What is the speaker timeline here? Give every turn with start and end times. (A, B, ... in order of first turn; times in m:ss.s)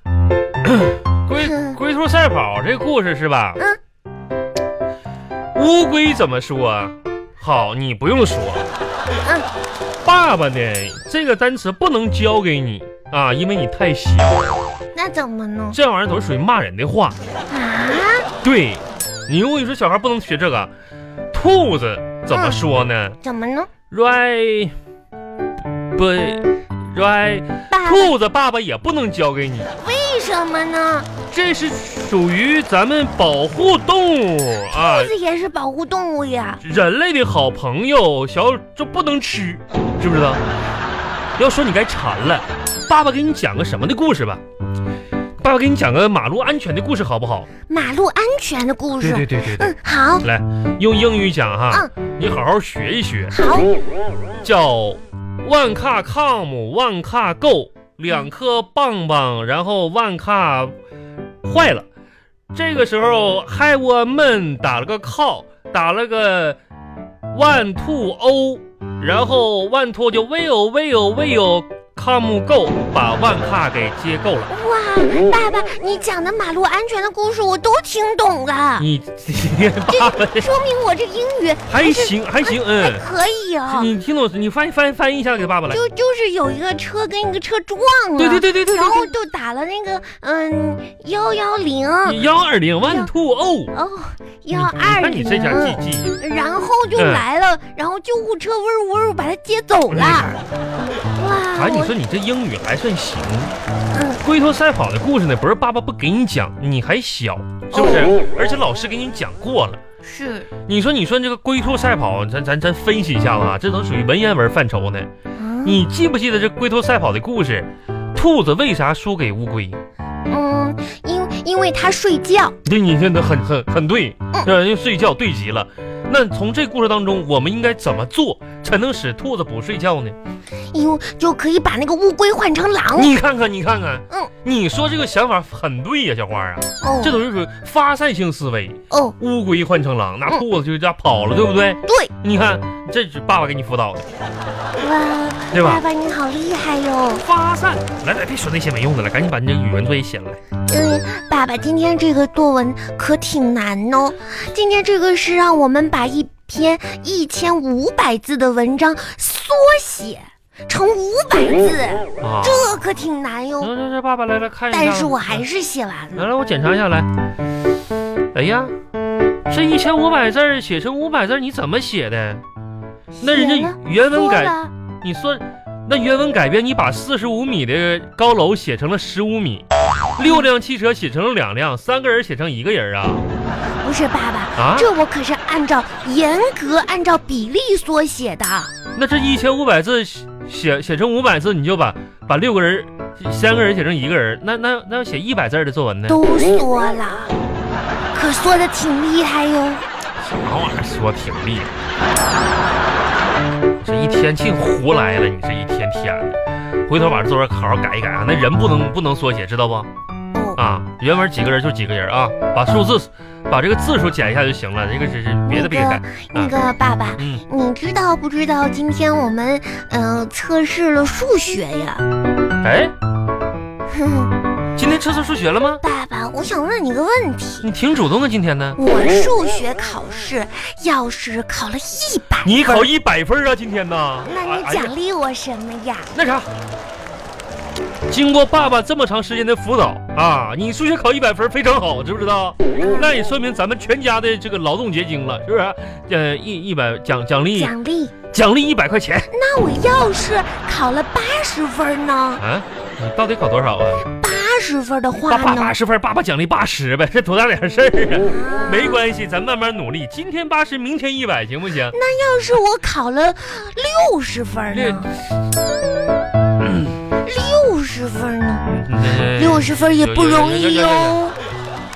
0:00.6-0:03.6 A
0:01.4-0:01.8 B
0:05.6-0:08.7 A
0:10.0-0:14.6 A
0:15.0-0:15.8 B
0:15.7-0:17.2 A
0:17.5-0:18.3 B
0:18.4-0:20.7 A
0:21.3-0:23.2 A
0:22.3-0:22.6 B
0:23.2-0:23.7 B
0:23.9-0:24.8 A
0:25.9-0:29.7 A
0:27.7-0:28.2 B
0:29.7-0:31.1 B
0:31.3-0:35.1 A
0:34.7-0:36.6 B
0:36.6-0:40.4 A
0:41.4-0:44.4 A
0:45.4-0:47.5 A
0:47.7-0:50.3 B
0:49.0-0:53.4 A
0:53.3-0:53.8 B
0:54.4-1:00.7 A
1:01.4-1:01.9 A
1:02.5-1:06.6 A
1:07.3-1:14.5 A
1:14.5-1:18.9 B
1:18.8-1:20.5 A
1:19.9-1:23.9 B
1:21.7-1:23.0 A
1:23.7-1:25.8 A
1:25.7-1:32.2 B
1:28.2-1:29.1 A
1:32.1-1:33.7 A
1:32.8-1:33.1 B
1:33.7-1:40.4 B
1:34.5-1:36.2 A
1:37.0-1:37.2 A
1:39.9-1:40.4 A
1:41.2-1:41.9 B
1:41.6-1:43.5 A
1:43.9-1:44.2 B
1:44.2-1:49.8 A
1:47.7-1:48.2 B
1:50.0-1:50.5 B
1:50.7-1:55.1 A
1:55.4-1:55.8 B
1:55.6-1:59.8 A
2:00.3-2:02.6 B
2:02.6-2:10.2 A
2:10.7-2:13.2 B
2:13.0-2:24.1 A
2:16.8-2:17.2 B
2:18.9-2:19.2 B
2:21.9-2:22.1 B
2:24.8-2:27.2 B
2:25.5-2:25.8 A
2:27.2-2:30.4 A
2:30.7-2:43.7 B
2:42.2-2:42.7 A
2:43.6-2:45.4 A
2:44.7-2:46.3 B
2:46.2-2:47.1 A
2:48.3-2:48.7 A
2:49.5-2:52.4 A
2:53.2-2:54.7 B
2:53.2-2:59.7 A
3:00.2-3:03.2 A
3:00.2-3:00.5 B
3:03.8-3:08.7 B
3:04.6-3:04.9 A
3:09.0-3:16.2 A
3:16.1-3:17.3 B
3:18.1-3:19.8 B
3:20.2-3:21.7 A
3:23.8-3:29.9 A
3:30.3-3:30.6 B
3:30.6-3:36.6 A
3:35.5-3:42.0 B
3:37.2-3:37.4 A
3:42.6-3:42.9 A
3:43.9-3:44.3 B
3:44.8-3:45.8 A
3:45.8-3:47.7 B
3:47.6-3:48.8 A
3:48.8-3:52.9 B
3:52.4-3:54.9 A
3:54.2-3:56.2 B
3:56.1-3:56.5 A
3:58.1-4:07.7 A
4:07.6-4:08.2 B
4:08.3-4:09.3 A
4:09.3-4:12.4 B
4:12.4-4:14.1 A
4:14.1-4:15.8 B
4:15.3-4:22.0 A
4:18.2-4:19.0 B
4:21.9-4:25.1 B
4:24.7-4:25.1 A
4:27.2-4:31.4 B
4:28.7-4:31.2 A